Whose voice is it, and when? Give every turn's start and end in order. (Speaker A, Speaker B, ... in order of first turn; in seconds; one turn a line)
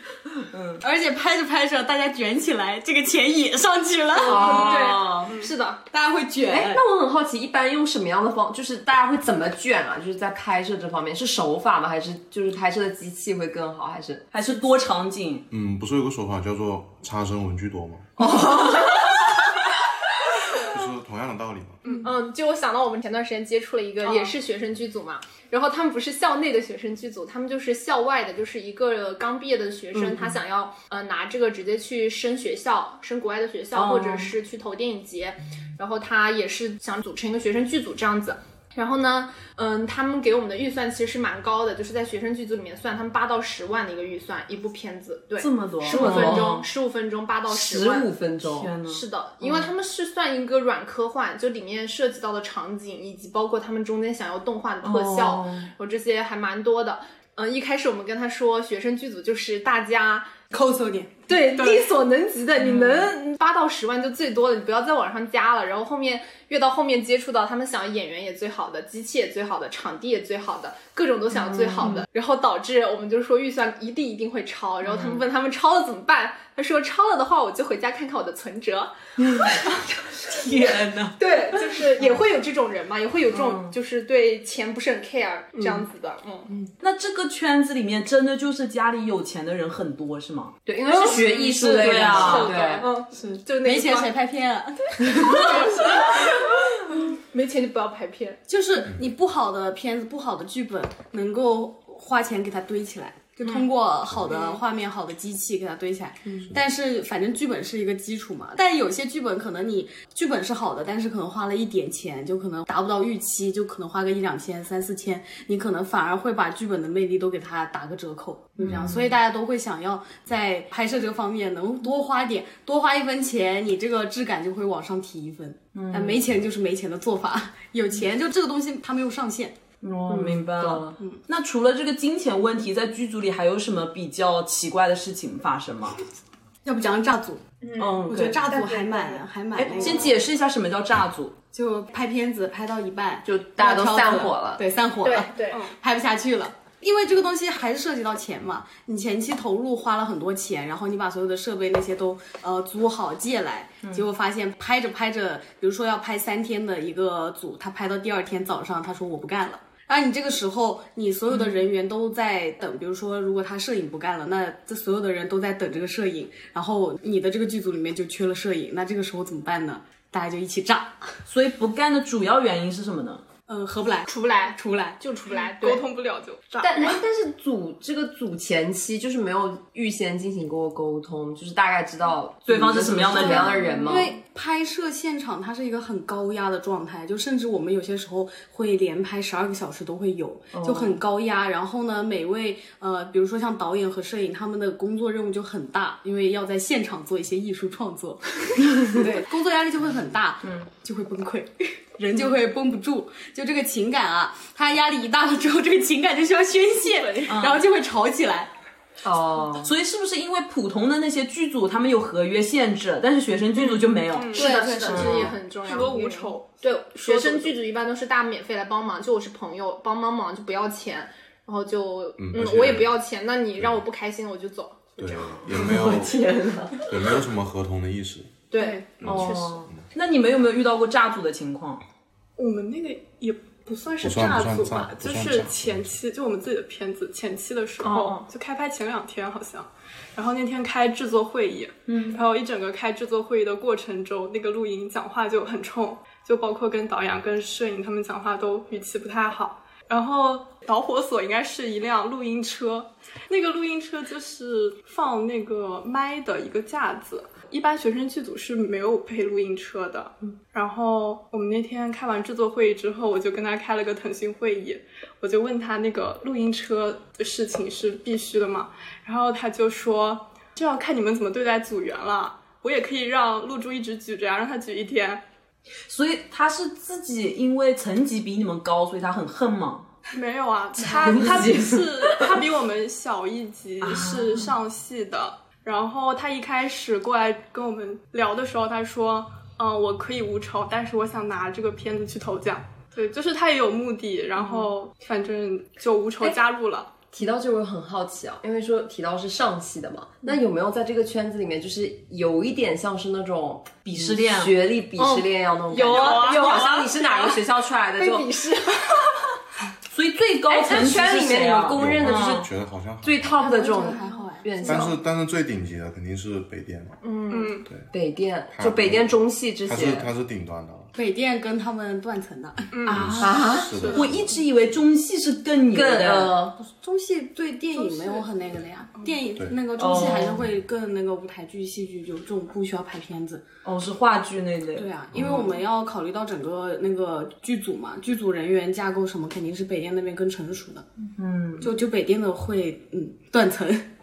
Speaker A: 0.5-0.8
Speaker B: 0.8-4.7
Speaker A: 4.1-5.3
Speaker C: 4.2-5.3
Speaker D: 4.3-5.8
Speaker B: 5.9-6.8
Speaker C: 6.4-14.2
Speaker A: 14.3-15.4
Speaker E: 15.5-18.3
Speaker C: 18.2-19.2
Speaker A: 18.2-18.9
Speaker E: 20.5-21.9
Speaker F: 21.8-22.1
Speaker D: 22.0-48.1
Speaker F: 24.0-24.3
Speaker C: 29.9-30.3
Speaker A: 33.7-34.3
Speaker A: 45.4-46.7
Speaker C: 45.9-46.5
Speaker C: 47.5-48.8
Speaker A: 48.5-49.7
Speaker D: 48.8-60.3
Speaker A: 54.8-55.7
Speaker B: 60.5-61.1
Speaker D: 61.3-80.6
Speaker F: 61.5-61.9
Speaker A: 62.6-63.1
Speaker C: 71.3-72.0
Speaker A: 74.8-75.2
Speaker A: 79.2-79.6
Speaker A: 80.2-81.4
Speaker D: 81.2-86.5
Speaker A: 83.3-83.8
Speaker C: 85.6-85.8
Speaker A: 86.8-90.6
Speaker C: 90.7-92.9
Speaker D: 90.9-94.1
Speaker B: 91.3-92.4
Speaker A: 91.7-92.6
Speaker B: 93.1-96.2
Speaker D: 95.3-96.3
Speaker D: 97.2-98.4
Speaker B: 98.5-129.6
Speaker D: 103.4-103.7
Speaker F: 104.3-104.6
Speaker A: 118.6-119.2
Speaker A: 125.7-126.2
Speaker A: 129.8-136.0
Speaker C: 130.1-131.0
Speaker B: 136.6-137.4
Speaker D: 137.6-140.1
Speaker A: 137.8-138.4
Speaker B: 138.1-140.2
Speaker A: 139.6-141.3
Speaker B: 141.5-171.1
Speaker C: 143.2-144.6
Speaker D: 145.0-145.7
Speaker A: 161.3-161.6
Speaker A: 171.3-173.2
Speaker B: 173.5-175.0
Speaker D: 174.1-175.9
Speaker F: 175.3-177.0
Speaker C: 176.6-184.1
Speaker A: 182.5-183.6
Speaker D: 183.2-184.0
Speaker F: 183.3-183.9
Speaker B: 183.8-208.5
Speaker C: 190.5-190.9
Speaker A: 200.4-200.7
Speaker A: 207.3-207.6
Speaker C: 209.0-209.7
Speaker A: 209.6-215.3
Speaker F: 213.6-215.0
Speaker D: 214.3-225.4
Speaker C: 214.3-215.3
Speaker F: 215.6-217.5
Speaker E: 222.2-223.0
Speaker E: 223.6-223.8
Speaker E: 225.0-226.2
Speaker C: 225.5-226.9
Speaker E: 226.8-228.3
Speaker D: 228.5-229.7
Speaker B: 228.6-228.8
Speaker E: 229.0-229.8
Speaker A: 229.0-231.8
Speaker F: 232.4-275.2
Speaker E: 234.0-236.0
Speaker D: 237.8-238.3
Speaker A: 241.9-242.2
Speaker A: 275.9-279.9
Speaker F: 280.1-297.0
Speaker C: 281.0-282.4
Speaker A: 283.8-284.5
Speaker C: 297.1-308.4
Speaker A: 303.8-304.6
Speaker D: 305.0-307.4
Speaker F: 305.9-306.9
Speaker D: 307.9-309.0
Speaker A: 309.9-312.5
Speaker C: 310.5-312.5
Speaker E: 311.7-313.4
Speaker C: 313.0-315.0
Speaker B: 313.4-314.9
Speaker E: 314.7-317.0
Speaker D: 317.0-317.6
Speaker F: 317.3-317.7
Speaker C: 317.9-320.1
Speaker E: 318.5-320.9
Speaker B: 320.9-322.7
Speaker F: 322.7-323.1
Speaker A: 322.9-326.4
Speaker E: 322.9-324.4
Speaker C: 323.2-323.9
Speaker F: 323.8-324.1
Speaker C: 325.7-326.6
Speaker B: 326.6-333.4
Speaker F: 327.8-328.2
Speaker A: 329.8-330.4
Speaker A: 333.6-335.5
Speaker B: 334.8-340.9
Speaker E: 335.1-335.4
Speaker A: 341.2-341.7
Speaker B: 341.6-343.9